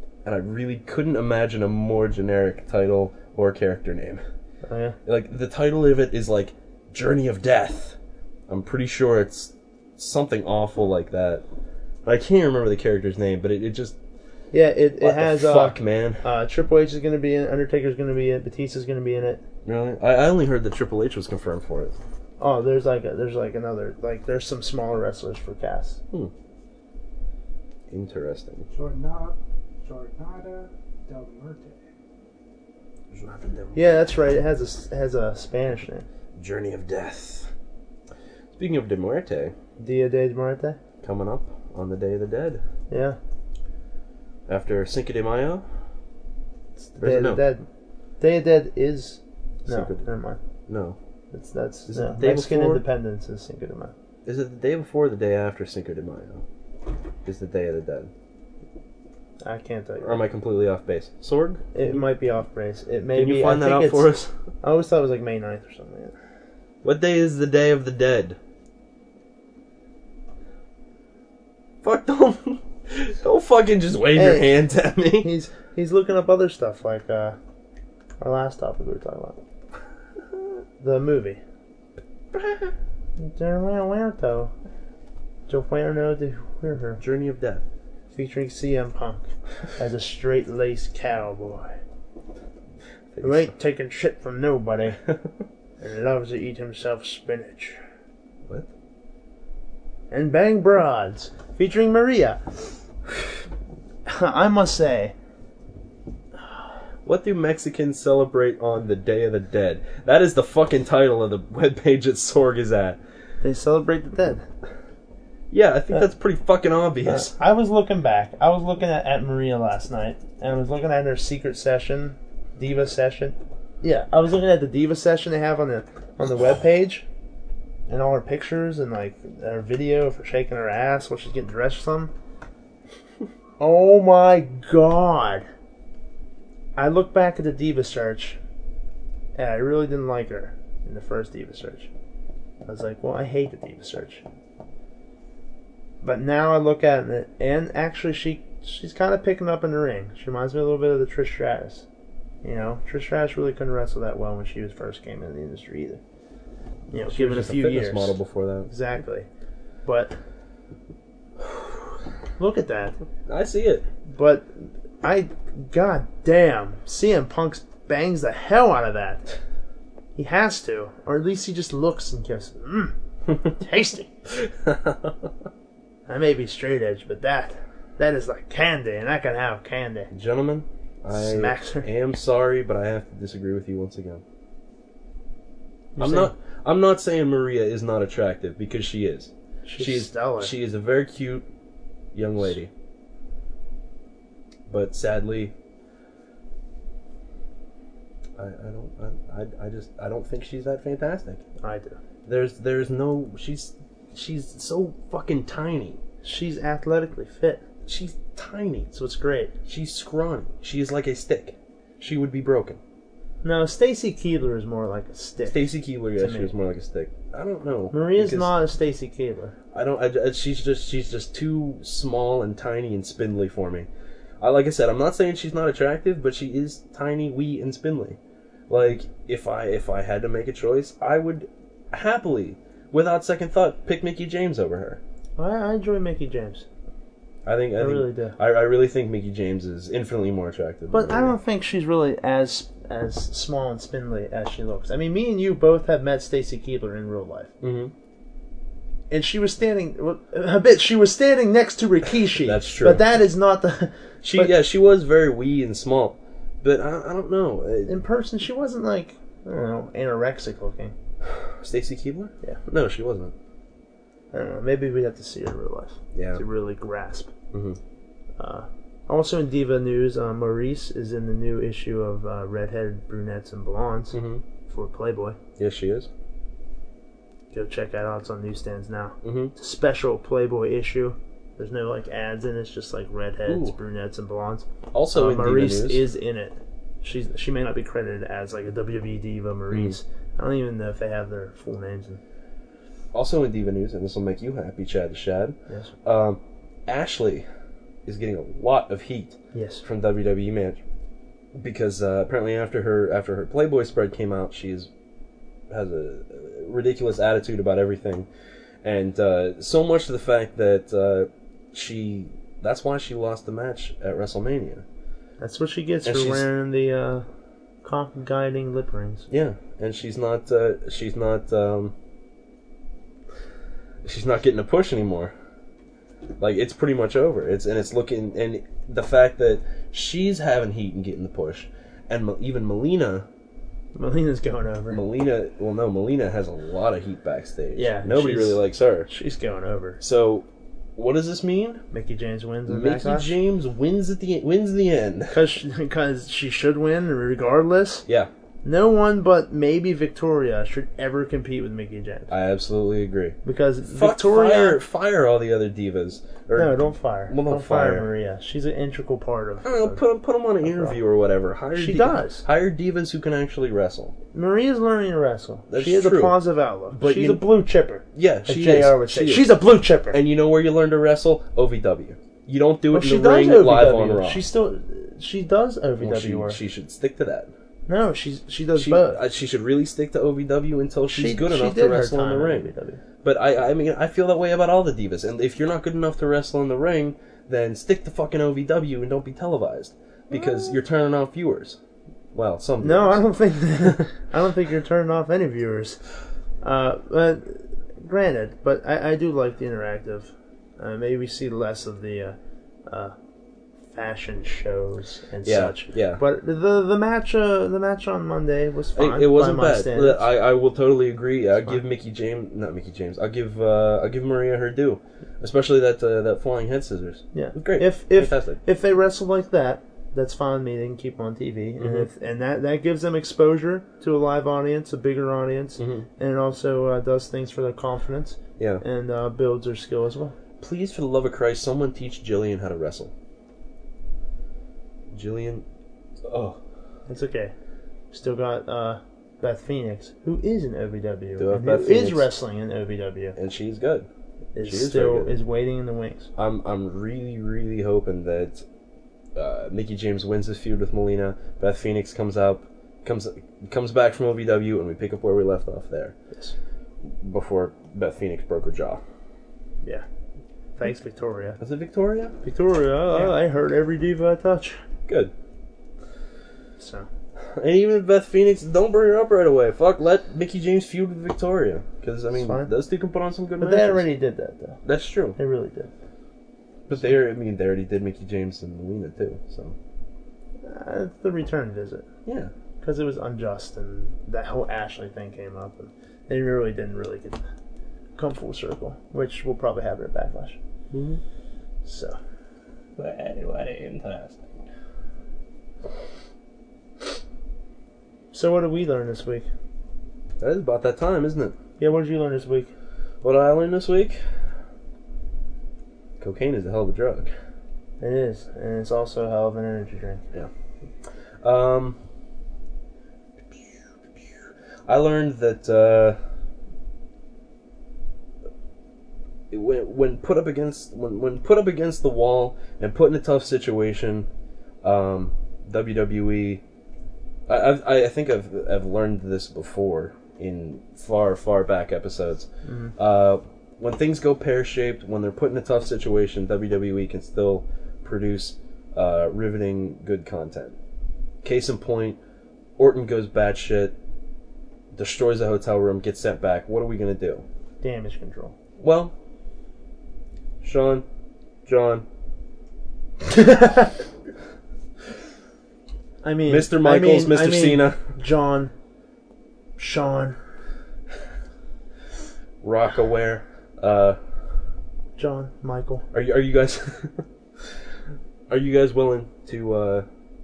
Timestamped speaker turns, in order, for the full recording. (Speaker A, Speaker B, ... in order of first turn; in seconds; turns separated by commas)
Speaker A: 0.2-4.2, Speaker B: 4.6-5.0, Speaker A: 5.0-11.4, Speaker A: 12.0-13.9, Speaker B: 14.5-19.4, Speaker A: 15.0-16.2, Speaker A: 19.6-21.9, Speaker B: 22.4-26.0, Speaker A: 27.9-28.7, Speaker C: 28.7-31.8, Speaker A: 33.1-33.8, Speaker B: 33.7-36.0, Speaker A: 36.4-37.5, Speaker A: 38.5-39.5, Speaker B: 39.8-40.8, Speaker A: 41.0-42.6, Speaker B: 42.9-43.2, Speaker A: 44.5-45.6, Speaker B: 46.8-47.6, Speaker A: 47.0-47.4, Speaker B: 48.2-50.4, Speaker A: 49.7-50.0, Speaker A: 50.7-51.0, Speaker B: 51.3-53.9, Speaker A: 51.9-52.8, Speaker A: 54.2-56.4, Speaker A: 57.2-58.1, Speaker B: 59.4-60.2, Speaker A: 60.0-61.6, Speaker B: 61.7-64.1, Speaker A: 63.1-64.3, Speaker B: 64.6-66.1, Speaker A: 66.8-68.4, Speaker A: 71.8-75.3, Speaker B: 74.1-74.5, Speaker B: 75.2-77.4, Speaker B: 78.2-79.4, Speaker B: 80.8-81.4, Speaker A: 82.3-82.7, Speaker B: 83.2-84.5, Speaker B: 85.5-87.0, Speaker A: 87.0-87.6, Speaker B: 88.1-91.7, Speaker A: 93.1-93.5, Speaker B: 93.2-95.0, Speaker B: 95.8-97.8, Speaker B: 100.1-102.4, Speaker B: 104.0-105.1, Speaker A: 107.0-113.0, Speaker B: 113.4-114.4, Speaker A: 115.5-117.3, Speaker B: 117.1-127.0, Speaker B: 127.9-132.1, Speaker B: 133.6-135.5, Speaker B: 136.8-138.4, Speaker B: 139.3-141.9, Speaker B: 142.7-144.2, Speaker B: 146.0-151.8, Speaker B: 152.4-156.0, Speaker B: 156.9-158.1, Speaker A: 157.0-158.7, Speaker B: 158.7-159.3, Speaker B: 159.8-160.2, Speaker B: 162.4-163.0, Speaker A: 163.3-163.8, Speaker B: 164.1-164.5, Speaker B: 165.0-169.3, Speaker B: 170.2-174.1, Speaker A: 174.3-175.3, Speaker B: 176.1-180.1, Speaker A: 180.1-184.2, Speaker B: 181.1-181.9, Speaker B: 185.9-186.3, Speaker A: 186.0-191.4, Speaker B: 189.6-190.5, Speaker A: 192.1-192.7, Speaker A: 194.7-195.5, Speaker A: 198.4-201.4, Speaker B: 201.6-202.0, Speaker A: 202.2-206.0, Speaker B: 206.2-207.6, Speaker A: 207.8-208.9, Speaker B: 208.9-209.5, Speaker A: 209.7-212.8, Speaker B: 213.4-216.5, Speaker A: 215.4-218.5, Speaker B: 217.9-219.5, Speaker A: 219.7-223.9, Speaker A: 224.4-235.0, Speaker B: 235.4-236.7, Speaker A: 237.4-241.3, Speaker B: 237.8-238.3, Speaker B: 240.9-247.5, Speaker A: 247.6-247.9, Speaker B: 249.1-254.5, Speaker A: 252.4-253.0, Speaker A: 254.2-258.0, Speaker B: 257.9-260.9, Speaker A: 261.2-263.3, Speaker B: 264.3-267.3, Speaker A: 266.1-266.4, Speaker A: 267.5-267.8, Speaker B: 268.4-275.4, Speaker A: 274.1-274.4, Speaker A: 275.6-276.1, Speaker B: 277.5-292.2, Speaker A: 279.2-279.5, Speaker A: 283.5-283.8, Speaker A: 284.9-286.1, Speaker A: 293.1-297.4, Speaker B: 295.7-295.9, Speaker A: 298.0-300.8, Speaker B: 299.5-299.8, Speaker A: 301.5-304.9, Speaker A: 305.7-308.3, Speaker A: 308.8-314.8, Speaker B: 315.4-317.2, Speaker A: 316.0-316.4, Speaker B: 317.8-319.3, Speaker A: 319.3-321.9, Speaker A: 324.0-325.3, Speaker A: 326.4-333.2, Speaker B: 333.9-335.0, Speaker A: 334.9-339.1, Speaker B: 337.7-340.0, Speaker A: 340.0-341.8, Speaker B: 341.9-343.3, Speaker A: 342.7-345.4, Speaker B: 345.3-348.0, Speaker B: 348.6-352.3, Speaker A: 352.3-353.4, Speaker B: 353.4-354.8, Speaker A: 353.9-358.1, Speaker B: 356.5-360.0, Speaker A: 359.6-364.1, Speaker B: 360.6-361.0, Speaker B: 361.7-362.4, Speaker B: 364.3-370.2, Speaker A: 365.7-366.4, Speaker A: 366.9-367.4, Speaker A: 368.1-374.4, Speaker B: 372.9-376.6, Speaker A: 376.0-377.5, Speaker B: 377.9-379.2, Speaker A: 378.7-382.7, Speaker B: 381.1-383.0, Speaker A: 383.2-391.8, Speaker A: 392.3-394.0, Speaker B: 392.8-396.0, Speaker B: 396.6-402.4, Speaker B: 402.9-403.1, Speaker B: 403.9-410.2, Speaker A: 405.4-406.2, Speaker A: 408.9-418.6, Speaker B: 417.3-430.3, Speaker A: 421.8-422.1, Speaker A: 425.8-426.1, Speaker A: 428.6-428.8, Speaker A: 430.6-433.1, Speaker A: 435.1-435.6, Speaker A: 436.3-436.6, Speaker B: 437.1-437.5, Speaker B: 438.1-443.4, Speaker A: 441.4-442.3, Speaker A: 443.4-444.1, Speaker B: 444.5-446.3, Speaker A: 444.6-445.4, Speaker A: 446.4-448.6, Speaker A: 449.4-456.1, Speaker A: 457.0-459.0, Speaker B: 460.8-461.6, Speaker A: 461.6-462.4, Speaker B: 462.4-464.8, Speaker A: 465.1-465.3, Speaker B: 466.8-467.1, Speaker A: 467.4-474.1, Speaker B: 472.3-472.7, Speaker B: 473.6-474.8, Speaker A: 474.8-475.4, Speaker B: 475.4-475.9, Speaker A: 476.9-479.8, Speaker B: 480.6-482.1, Speaker A: 482.2-482.5, Speaker B: 482.8-487.4, Speaker B: 488.1-490.6, Speaker A: 490.9-491.2, Speaker B: 491.8-492.2, Speaker A: 493.0-494.4, Speaker B: 498.3-499.5, Speaker A: 500.4-501.5, Speaker B: 501.8-502.7, Speaker A: 503.2-504.2, Speaker A: 506.2-507.3, Speaker B: 508.0-510.2, Speaker A: 511.0-512.0, Speaker A: 513.5-516.2, Speaker A: 519.5-524.3, Speaker A: 524.8-526.6, Speaker A: 527.5-540.8, Speaker B: 532.6-532.9, Speaker A: 541.4-542.2, Speaker A: 542.8-543.9, Speaker A: 544.9-547.4, Speaker B: 547.8-548.5, Speaker A: 548.8-549.1, Speaker A: 550.6-551.0, Speaker A: 551.6-552.0, Speaker B: 553.3-554.0, Speaker B: 556.2-558.7, Speaker A: 556.5-558.0, Speaker B: 559.8-560.4, Speaker A: 562.6-564.2, Speaker B: 565.2-566.0, Speaker A: 566.1-567.2, Speaker A: 568.5-570.0